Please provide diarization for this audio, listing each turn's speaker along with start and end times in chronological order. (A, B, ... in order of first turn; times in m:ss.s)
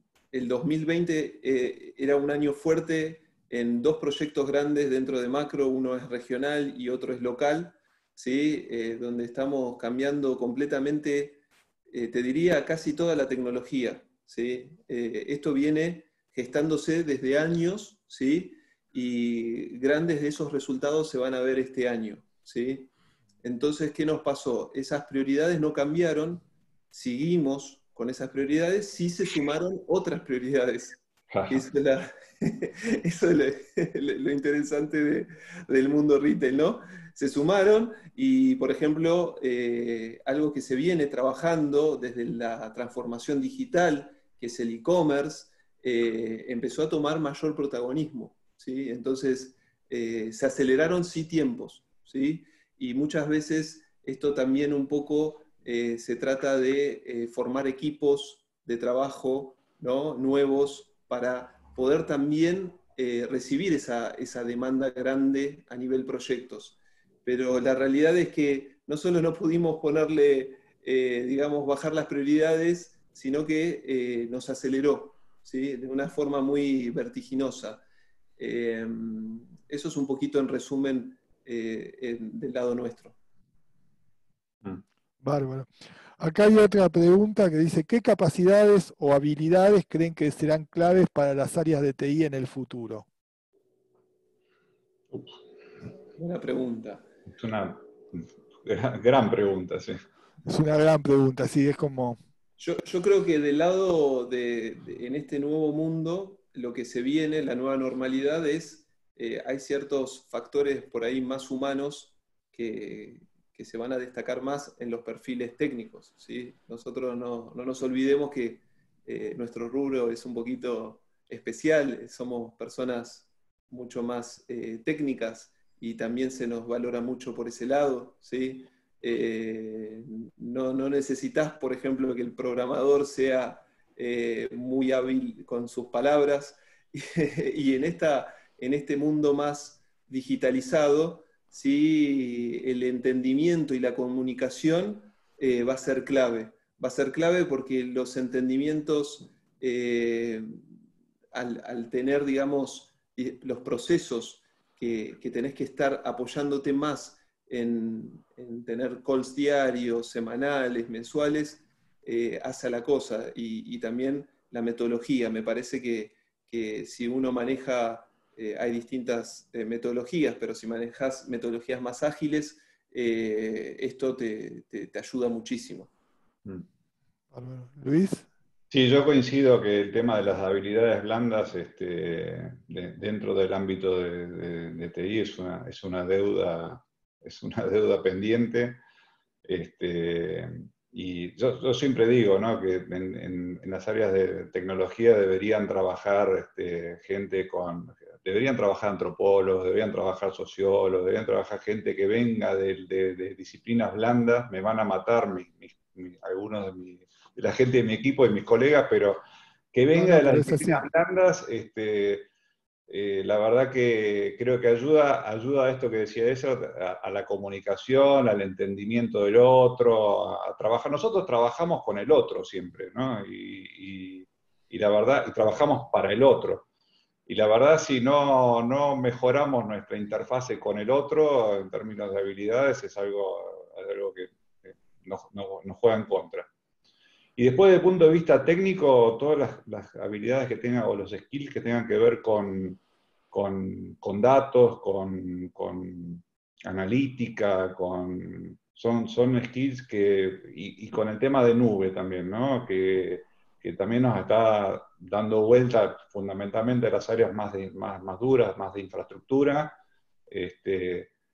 0:00.3-0:22.9 A
0:23.4-1:17.8 A
0:31.3-0:31.6 B
1:18.4-1:23.2 A
1:25.2-1:33.0 C
1:36.2-1:37.0 A
1:37.3-1:40.0 B
1:40.4-1:42.2 C
1:42.6-2:30.6 A
2:31.3-2:55.9 A
2:57.3-2:58.3 C
2:58.7-3:08.8 B
3:09.4-3:29.2 B
3:29.7-3:32.3 B
3:29.9-3:30.8 C
3:32.9-3:46.7 B
3:47.3-3:56.5 B
3:57.4-4:02.8 B
4:03.3-4:19.8 B
4:20.3-4:21.1 B